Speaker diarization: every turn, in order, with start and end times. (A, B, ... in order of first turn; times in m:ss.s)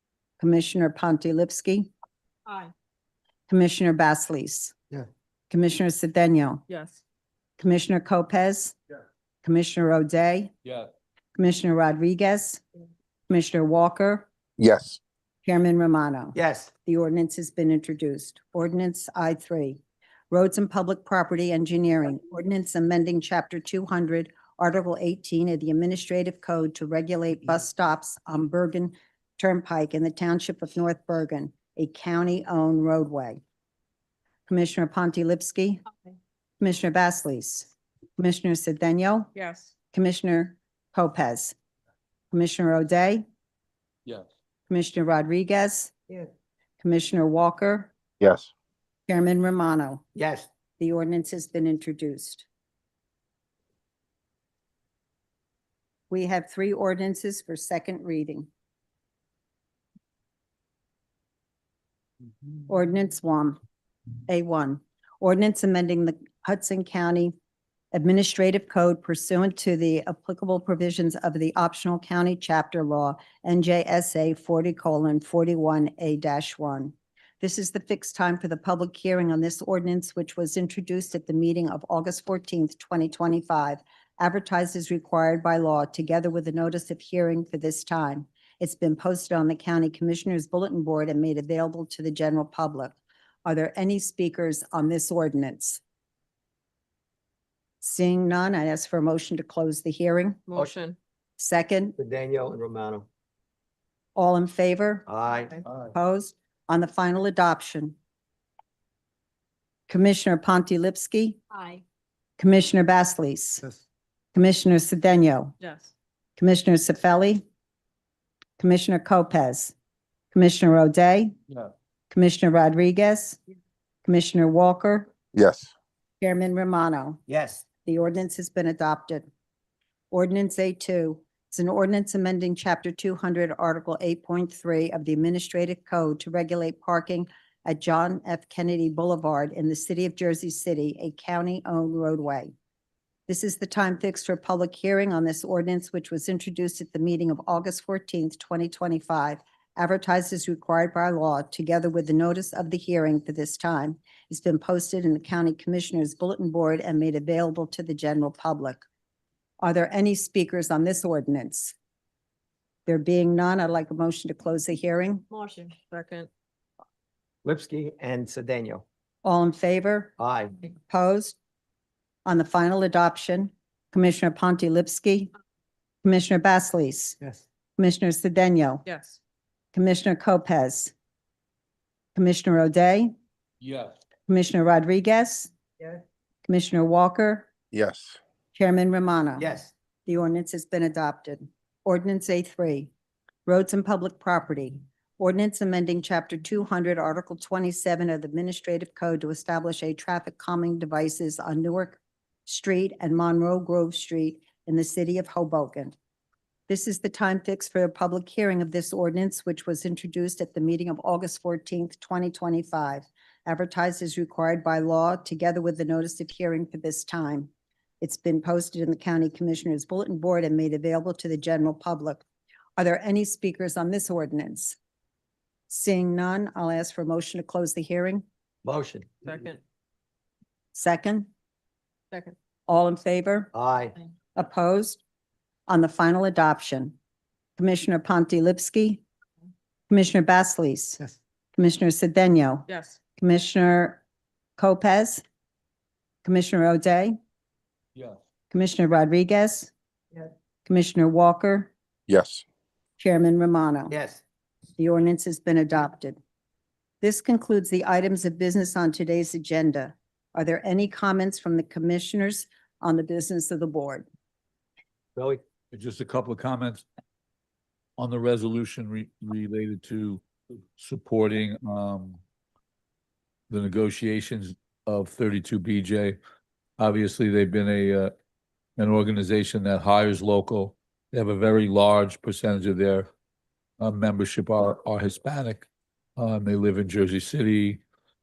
0:00.4-0:01.9 A
0:03.5-0:04.8 A
0:05.5-0:06.6 A
0:06.7-0:07.0 B
0:07.6-0:08.8 A
0:09.4-0:10.5 A
0:11.4-0:12.6 A
0:13.3-0:14.3 A
0:14.6-0:15.0 C
0:15.4-0:33.4 A
0:16.4-0:16.7 D
0:34.5-0:35.8 A
0:36.6-0:39.3 A
0:39.4-0:39.7 B
0:39.9-0:41.6 A
0:42.3-0:43.2 A
0:44.7-0:45.9 A
0:46.8-0:47.9 A
0:48.2-0:48.5 C
0:49.1-0:50.0 A
0:50.2-0:50.5 D
0:50.8-0:52.5 A
0:56.1-0:58.5 A
1:02.7-1:03.6 A
1:04.3-1:07.3 A
1:07.9-1:35.8 A
1:37.8-1:40.4 A
1:40.5-1:41.0 B
1:41.4-1:42.0 A
1:42.0-1:43.1 D
1:44.2-1:45.1 A
1:45.1-1:45.6 D
1:45.8-1:48.0 A
1:49.9-1:51.4 A
1:51.5-1:51.8 B
1:52.4-1:53.6 A
1:54.3-1:55.6 A
1:55.6-1:55.9 B
1:56.4-1:57.4 A
1:58.6-1:59.7 A
2:00.3-2:01.4 A
2:02.1-2:03.4 A
2:04.0-2:05.1 A
2:05.3-2:05.7 C
2:06.2-2:07.2 A
2:07.3-2:07.6 D
2:07.8-2:09.3 A
2:10.1-2:22.5 A
2:23.3-2:38.8 A
2:39.6-2:41.8 A
2:42.9-2:45.2 A
2:45.3-2:46.3 B
2:47.4-2:48.8 D
2:49.2-2:50.1 A
2:50.2-2:50.6 D
2:50.9-2:51.4 A
2:52.2-2:55.3 A
2:56.0-2:57.2 A
2:57.8-2:58.8 A
2:58.9-2:59.2 B
2:59.7-3:00.9 A
3:02.2-3:03.1 A
3:03.6-3:03.9 E
3:04.3-3:05.5 A
3:06.5-3:07.5 A
3:07.7-3:08.2 C
3:08.5-3:09.5 A
3:09.4-3:09.7 D
3:10.1-3:12.9 A
3:13.5-3:25.9 A
3:26.7-3:42.2 A
3:42.8-3:44.8 A
3:45.7-3:48.2 A
3:48.6-3:49.2 D
3:49.2-3:49.6 B
3:50.7-3:51.3 A
3:52.7-3:53.5 A
3:53.5-3:54.0 D
3:54.4-3:55.0 A
3:55.7-3:57.0 A
3:57.6-3:59.0 A
3:59.9-4:01.0 A
4:01.6-4:04.0 A
4:02.7-4:03.0 B
4:04.6-4:05.2 A
4:06.2-4:07.2 A
4:08.5-4:09.7 A
4:10.6-4:11.7 A
4:12.1-4:12.4 C
4:13.0-4:14.0 A
4:13.9-4:14.2 D
4:14.8-4:16.2 A
4:17.0-4:24.0 A
4:25.2-4:25.4 D
4:25.7-4:26.8 E
4:28.0-4:30.2 E
4:30.8-4:32.2 E
4:33.5-4:36.2 E
4:36.8-4:38.1 E
4:38.8-4:43.1 E
4:43.8-4:45.6 E
4:46.2-4:47.8 E